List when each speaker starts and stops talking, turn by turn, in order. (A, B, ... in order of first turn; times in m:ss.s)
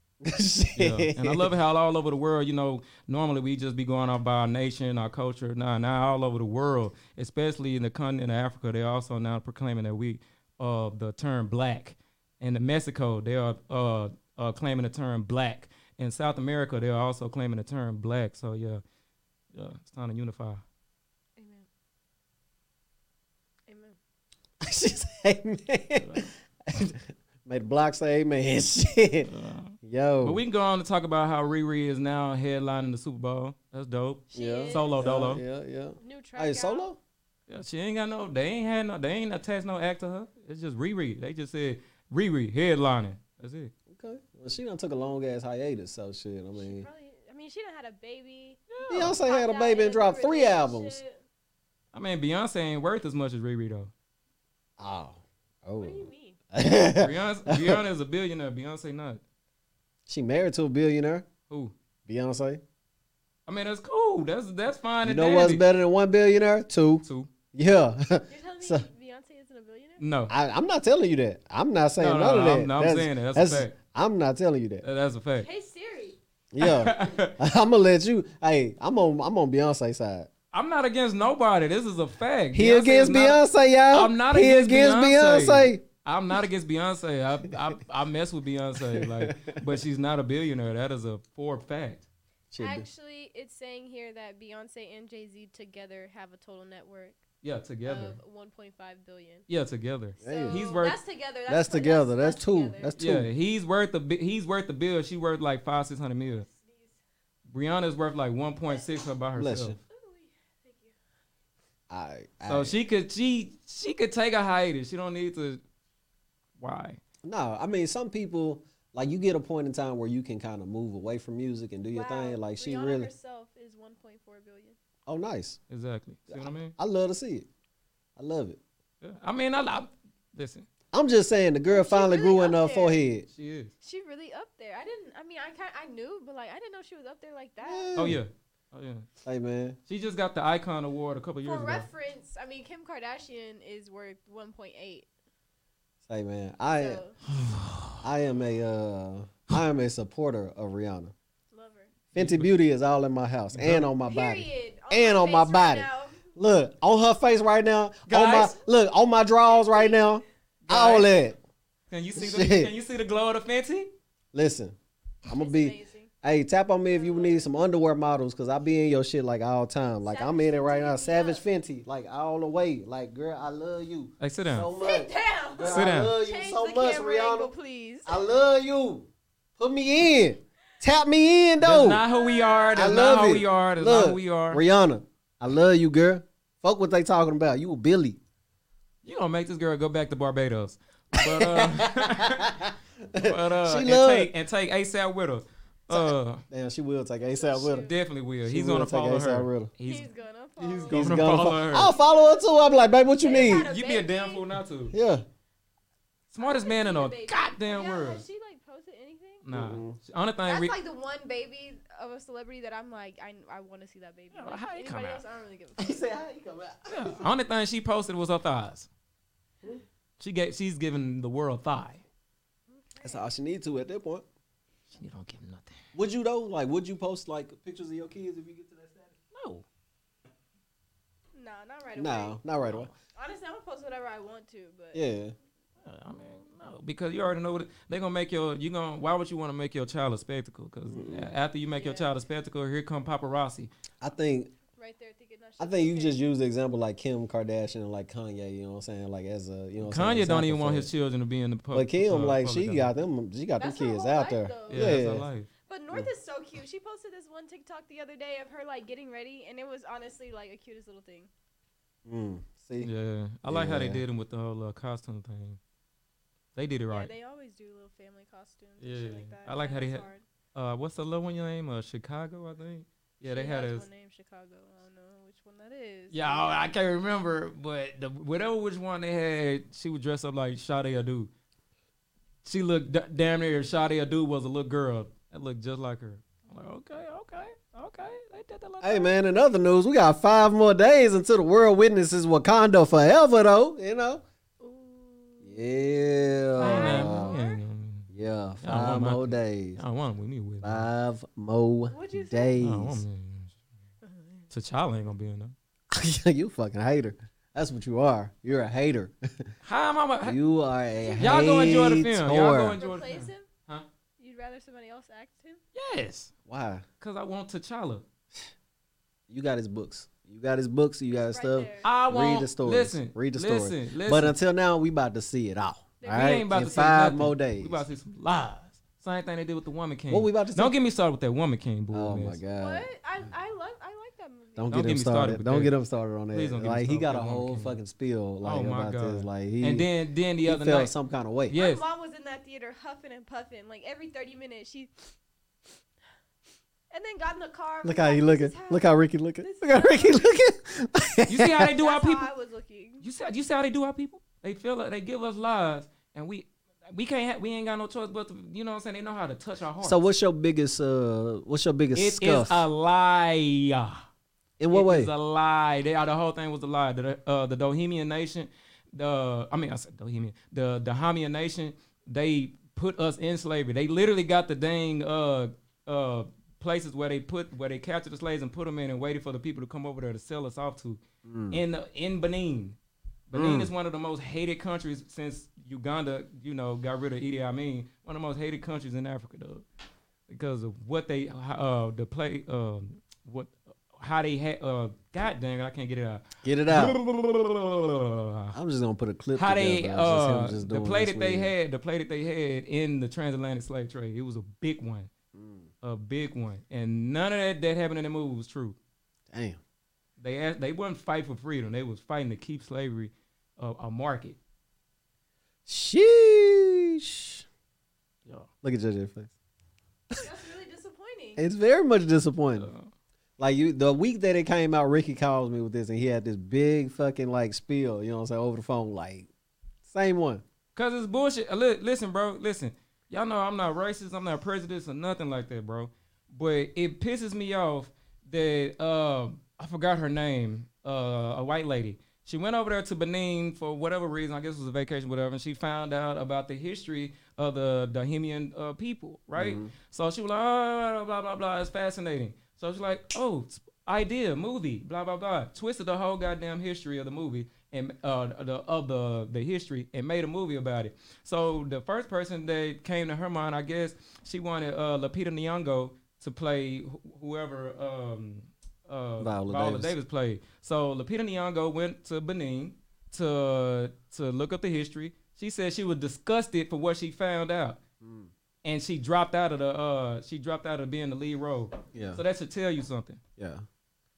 0:00.2-0:01.5 A
0:00.8-0:18.8 B
0:19.5-0:20.6 B
0:21.4-0:21.7 C
0:23.7-0:24.0 C
0:24.6-0:30.4 A
0:26.0-0:26.3 B
0:29.2-0:35.4 B
0:34.3-0:35.1 C
0:34.3-0:37.0 A
0:36.0-0:36.9 C
0:37.5-0:43.7 B
0:43.9-0:46.9 A
0:46.5-0:51.2 C
0:48.7-0:49.2 B
0:48.9-0:51.0 A
0:51.9-0:53.9 B
0:54.8-0:57.8 A
0:55.8-0:56.4 C
0:56.9-0:59.2 B
1:00.1-1:01.3 A
1:01.5-1:01.7 B
1:02.0-1:02.6 A
1:03.4-1:05.6 B
1:05.0-1:08.8 A
1:07.0-1:07.3 B
1:08.3-1:10.0 C
1:10.0-1:10.3 B
1:10.3-1:14.8 A
1:12.0-1:13.7 B
1:14.8-1:15.5 B
1:15.4-1:16.2 C
1:16.5-1:20.3 A
1:16.6-1:17.4 B
1:20.5-1:23.4 B
1:22.5-1:25.8 A
1:23.9-1:32.1 B
1:28.8-1:29.6 A
1:32.5-1:32.8 A
1:32.6-1:37.2 C
1:37.4-1:38.2 B
1:37.8-1:39.5 C
1:39.5-1:41.0 B
1:40.2-1:40.7 A
1:40.2-1:42.9 C
1:41.5-1:43.3 A
1:43.0-1:46.4 B
1:46.2-1:47.0 C
1:47.5-1:49.8 B
1:49.4-1:49.8 A
1:49.9-1:50.9 C
1:51.9-1:52.8 A
1:52.4-1:55.6 B
1:56.6-1:57.0 B
1:57.2-2:03.1 A
2:01.9-2:04.8 C
2:05.1-2:05.6 A
2:05.7-2:06.8 B
2:06.3-2:07.5 A
2:08.2-2:08.6 A
2:09.0-2:10.7 B
2:10.9-2:13.2 A
2:11.7-2:13.0 C
2:13.3-2:13.7 B
2:13.8-2:18.0 C
2:17.6-2:18.2 A
2:18.0-2:19.1 B
2:19.2-2:19.8 A
2:19.9-2:21.9 B
2:21.4-2:25.1 C
2:26.1-2:27.0 A
2:26.8-2:27.2 C
2:27.3-2:28.0 B
2:28.0-2:31.1 A
2:31.5-2:31.9 C
2:32.1-2:41.4 A
2:32.2-2:32.5 B
2:33.5-2:33.9 B
2:34.0-2:36.3 C
2:38.1-2:38.6 B
2:39.5-2:40.1 C
2:40.6-2:41.1 B
2:41.9-2:43.9 B
2:42.2-2:42.7 A
2:44.3-2:44.8 A
2:45.3-2:57.5 A
2:45.3-2:46.1 C
2:46.9-2:47.5 C
2:50.0-2:51.4 C
2:54.2-2:54.7 B
2:54.8-2:58.2 C
2:55.6-2:56.1 B
2:58.0-3:02.0 A
3:01.6-3:04.6 B
3:02.0-3:03.5 C
3:02.7-3:08.2 A
3:09.0-3:12.6 B
3:11.2-3:14.3 A
3:13.2-3:16.4 B
3:15.9-3:17.9 A
3:17.2-3:18.0 C
3:17.8-3:20.1 B
3:18.4-3:19.7 A
3:19.8-3:21.2 C
3:20.6-3:21.9 B
3:20.9-3:23.6 A
3:21.8-3:24.4 C
3:23.4-3:24.9 B
3:24.9-3:25.2 A
3:26.3-3:28.2 B
3:26.4-3:29.4 C
3:29.4-3:30.8 B
3:29.5-3:30.0 A
3:30.4-3:36.1 C
3:34.3-3:35.2 B
3:35.8-3:37.3 A
3:36.9-3:38.9 B
3:40.2-3:42.0 B
3:42.7-3:43.3 C
3:43.0-3:44.2 A
3:44.9-3:45.8 B
3:45.9-3:49.1 A
3:49.3-3:49.6 B
3:51.3-3:52.4 C
3:52.0-3:52.9 A
3:53.1-3:55.0 C
3:54.9-3:55.3 A
3:55.8-4:03.7 B
4:00.9-4:01.3 A
4:01.7-4:02.1 C
4:04.0-4:04.5 A
4:04.8-4:06.2 C
4:05.6-4:10.9 A
4:09.8-4:12.9 B
4:11.7-4:15.3 A
4:13.6-4:15.0 C
4:14.7-4:15.5 B
4:15.6-4:21.3 C
4:22.0-4:22.9 A
4:22.8-4:25.6 B
4:23.5-4:24.0 A
4:26.5-4:27.1 B
4:26.9-4:30.2 C
4:28.8-4:33.9 B
4:33.2-4:36.7 C
4:36.1-4:41.3 B
4:42.4-4:49.1 B
4:48.8-4:54.2 A
4:54.6-4:55.6 C
4:55.4-4:57.3 A
4:56.6-4:57.6 C
4:56.6-4:58.1 B
4:58.1-4:59.8 A
4:58.6-5:00.9 B
5:00.6-5:03.0 A
5:01.9-5:02.6 C
5:02.6-5:03.6 B
5:04.0-5:04.5 C
5:04.5-5:05.5 B
5:05.9-5:09.5 A
5:09.6-5:10.4 B
5:10.2-5:12.8 A
5:10.9-5:12.0 C
5:11.2-5:13.9 B
5:12.8-5:13.5 C
5:14.2-5:15.6 C
5:15.7-5:16.3 B
5:16.5-5:16.8 A
5:17.0-5:18.0 B
5:19.3-5:27.8 A
5:21.1-5:21.9 C
5:21.8-5:24.3 B
5:26.0-5:26.9 C
5:26.1-5:32.4 B
5:30.1-5:30.8 A
5:31.9-5:32.9 A
5:32.5-5:34.7 C
5:34.6-5:39.9 A
5:34.7-5:35.7 B
5:36.3-5:37.8 B
5:38.4-5:40.9 B
5:40.4-5:41.5 A
5:41.5-5:41.8 B
5:41.5-5:45.1 C
5:46.9-5:48.9 C
5:47.8-5:51.7 A
5:49.4-5:50.2 C
5:51.3-5:52.3 B
5:51.6-5:53.0 C
5:53.0-6:00.0 B
5:59.8-6:02.6 A
6:01.9-6:04.0 B
6:04.6-6:05.1 A
6:04.7-6:22.8 B
6:21.2-6:21.6 A
6:23.3-6:29.6 B
6:23.3-6:23.7 A
6:30.3-6:38.6 B
6:36.4-6:37.0 A
6:38.5-6:41.5 A
6:39.4-6:45.1 B
6:45.3-6:45.7 A
6:45.8-6:48.8 B
6:49.3-6:49.6 A
6:50.2-6:54.4 B
6:55.6-6:57.4 A
6:58.6-6:59.3 A
7:00.2-7:01.4 C
7:01.4-7:02.7 A
7:02.6-7:02.9 B
7:03.4-7:09.3 A
7:09.8-7:10.4 A
7:10.7-7:57.8 B
7:29.4-7:29.7 A
7:49.2-7:49.9 A
7:58.0-7:58.3 A
7:58.6-8:03.2 B
8:01.9-8:02.2 A
8:03.4-8:03.6 A